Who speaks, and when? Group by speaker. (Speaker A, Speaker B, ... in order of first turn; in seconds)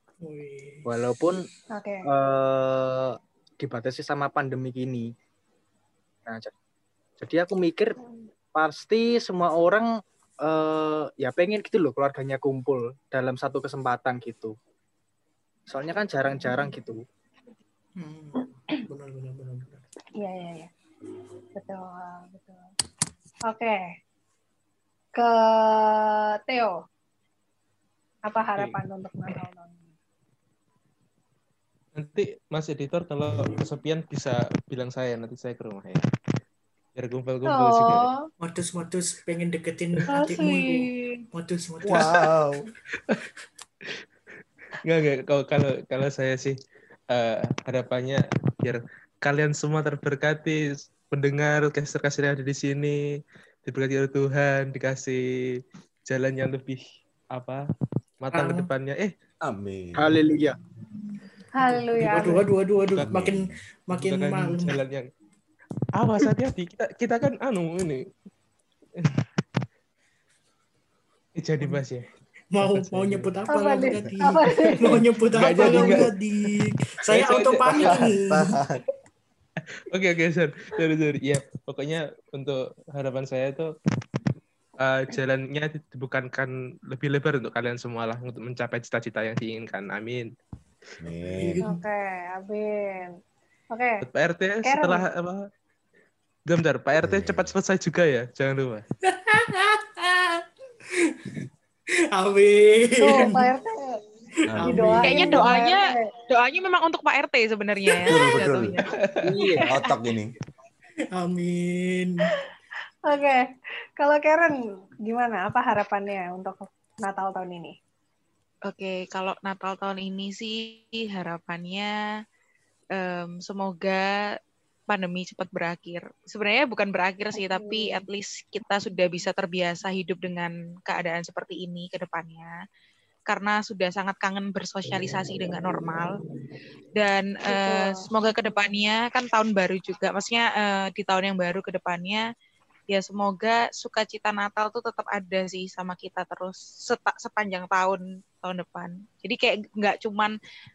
Speaker A: 0.2-0.9, 18.0-19.8, 38.4-42.2, 58.3-58.7, 61.9-64.8, 72.5-78.5, 91.3-91.8, 99.0-101.3, 102.1-103.5, 104.5-105.5, 111.1-112.2
Speaker B: 0.8-1.5, 2.1-5.1, 6.2-6.5, 7.2-8.0, 8.5-9.9, 10.4-14.6, 15.7-17.0, 60.0-60.6, 109.2-109.7
Speaker C: 1.7-2.1, 20.2-20.7, 21.5-22.7, 23.5-23.9, 25.1-26.8, 28.3-29.9, 37.5-38.2, 40.1-41.2, 61.5-62.4, 73.5-75.0, 75.6-75.9, 91.6-93.2, 93.7-94.0, 94.6-95.0, 103.0-104.0, 104.6-106.0, 113.1-113.4, 114.0-117.7, 127.3-128.0, 137.4-138.0
Speaker D: 31.9-36.0, 37.0-38.1, 44.8-46.6, 47.1-53.0, 53.6-57.6, 58.2-59.1, 63.9-65.1, 66.0-68.1, 71.4-72.0, 72.6-73.3, 74.8-76.2, 77.1-78.1, 79.9-83.7, 84.8-90.3, 94.0-95.5, 96.5-98.8, 109.1-109.3
Speaker E: 41.9-42.6, 59.4-60.1, 63.0-63.6, 77.8-78.8, 91.0-91.6, 97.0-97.5, 104.5-105.0, 108.0-108.8, 109.7-110.3
Speaker F: 105.0-108.9, 118.7-121.9, 123.0-124.1, 124.9-132.5, 133.3-136.2, 136.9-142.2, 142.9-150.3